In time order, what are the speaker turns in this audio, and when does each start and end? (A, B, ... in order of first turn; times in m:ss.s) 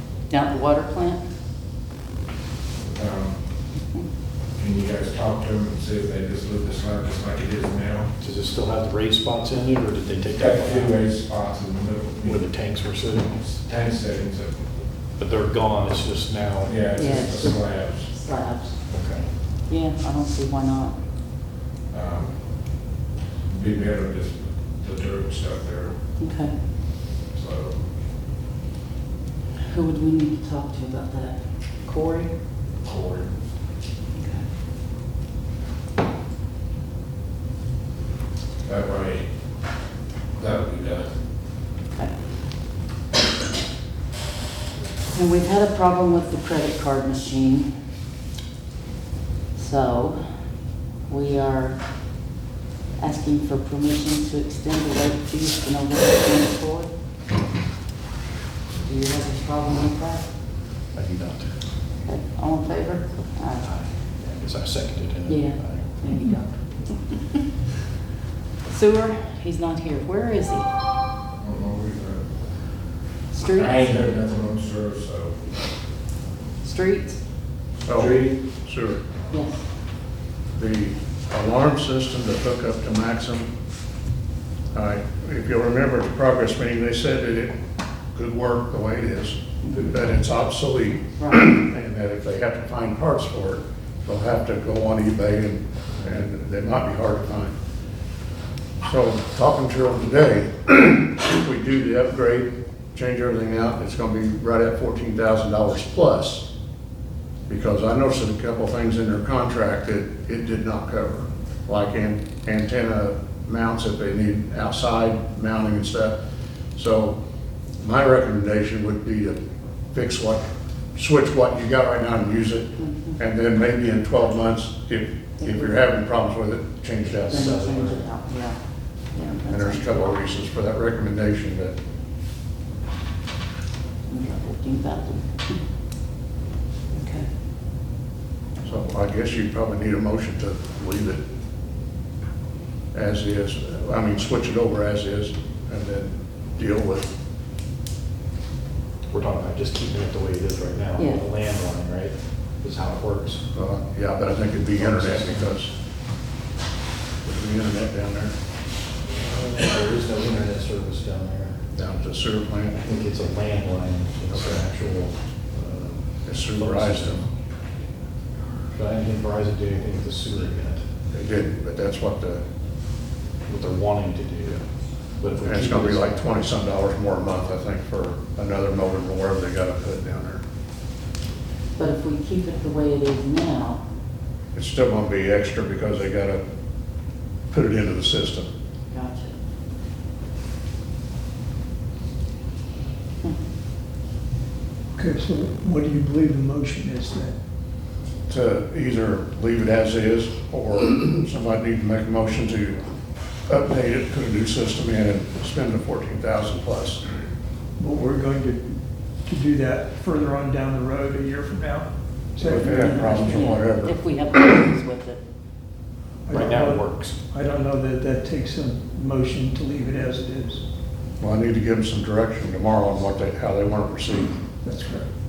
0:00.3-0:01.2 A
0:02.8-0:03.4 B
0:04.6-0:08.1 B
0:08.2-0:11.0 C
0:10.4-0:12.5 B
0:12.2-0:13.4 C
0:13.3-0:14.7 B
0:15.2-0:16.8 C
0:16.7-0:18.1 B
0:17.0-0:18.8 A
0:18.9-0:19.3 C
0:19.7-0:21.0 A
0:21.9-0:22.8 B
0:23.5-0:26.0 B
0:26.2-0:26.5 A
0:27.3-0:27.9 B
0:29.6-0:32.3 A
0:32.8-0:33.3 B
0:34.2-0:34.4 A
0:38.6-0:39.3 B
0:40.3-0:41.2 B
0:45.1-0:47.7 A
0:49.6-0:50.2 A
0:51.1-0:51.8 A
0:53.0-0:56.9 A
0:58.8-1:00.3 A
1:00.9-1:01.6 C
1:02.0-1:03.6 A
1:03.6-1:06.0 C
1:05.3-1:07.2 A
1:08.6-1:10.7 A
1:11.4-1:12.4 B
1:13.3-1:14.0 A
1:13.4-1:15.5 B
1:16.6-1:17.2 A
1:17.9-1:19.0 D
1:17.9-1:18.5 B
1:19.3-1:19.6 A
1:20.5-1:23.5 D
1:24.7-1:27.6 D
1:28.1-1:37.6 D
1:29.6-1:30.0 A
1:38.8-1:46.5 D
1:47.5-1:56.2 D
1:56.8-1:57.2 D
1:57.8-1:59.4 D
1:59.9-2:00.4 D
2:01.0-2:07.6 D
2:02.8-2:03.2 A
2:05.4-2:05.8 A
2:07.0-2:08.0 C
2:07.3-2:08.6 A
2:09.1-2:10.2 A
2:09.5-2:11.8 D
2:14.1-2:15.6 A
2:16.9-2:17.3 A
2:18.6-2:21.2 D
2:22.9-2:27.1 D
2:29.1-2:33.4 C
2:31.0-2:31.2 A
2:33.5-2:35.7 D
2:34.8-2:35.6 C
2:37.2-2:38.3 D
2:39.1-2:41.6 C
2:41.7-2:42.8 D
2:42.8-2:47.3 C
2:44.3-2:44.6 D
2:46.2-2:47.2 D
2:48.7-2:50.9 C
2:51.1-2:52.5 D
2:53.5-2:56.1 C
2:55.4-3:00.4 D
3:01.8-3:03.8 A
3:04.5-3:06.4 D
3:07.5-3:08.5 D
3:08.9-3:09.4 A
3:14.9-3:17.3 E
3:18.3-3:22.8 D
3:23.5-3:27.0 D
3:27.8-3:33.7 E
3:32.4-3:34.0 D
3:32.6-3:35.2 A
3:36.2-3:40.6 E
3:36.3-3:37.2 C
3:41.2-3:44.3 D
3:44.6-3:45.1 E